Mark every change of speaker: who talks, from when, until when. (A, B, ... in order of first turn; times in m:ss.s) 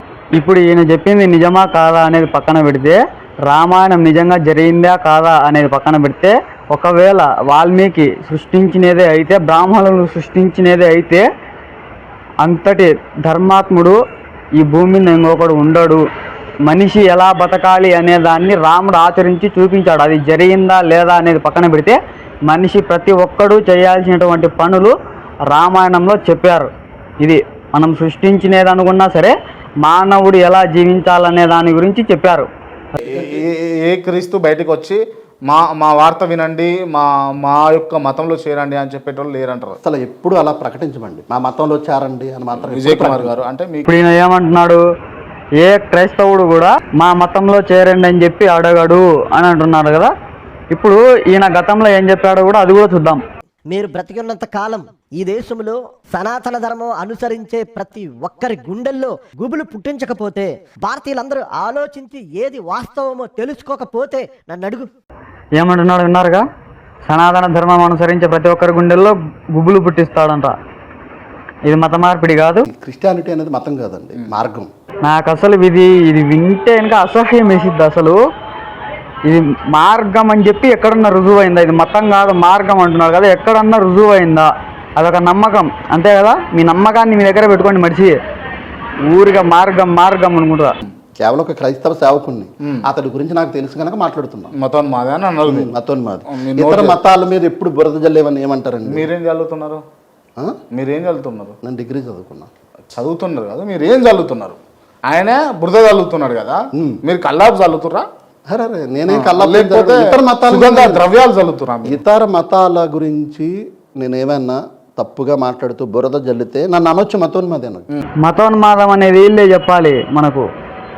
0:00.4-0:11.2 A
0:12.4-0:14.0 A
0:14.6-0:16.0 A
0:16.6-0:24.9 A
0:25.5-0:26.7 A
0:27.2-0:32.5 A
0:33.0-0:39.8 B
0:39.8-0:43.3 C
0:42.6-0:43.8 B
0:43.9-0:44.8 A
0:45.6-0:50.1 A
0:50.7-0:53.2 A
0:53.7-1:04.9 D
1:05.6-1:06.4 A
1:07.1-1:10.6 A
1:11.6-1:12.6 A
1:12.7-1:14.7 C
1:15.0-1:18.2 A
1:19.3-1:28.2 A
1:29.1-1:30.7 A
1:31.2-1:34.5 C
1:34.6-1:35.7 B
1:35.4-1:39.1 C
1:36.3-1:37.0 B
1:38.9-1:39.8 B
1:40.7-1:41.6 B
1:41.6-1:42.5 C
1:42.9-1:44.6 B
1:45.1-1:48.0 B
1:48.5-1:51.1 C
1:49.1-1:52.0 B
1:51.8-1:57.8 C
1:58.2-2:00.4 A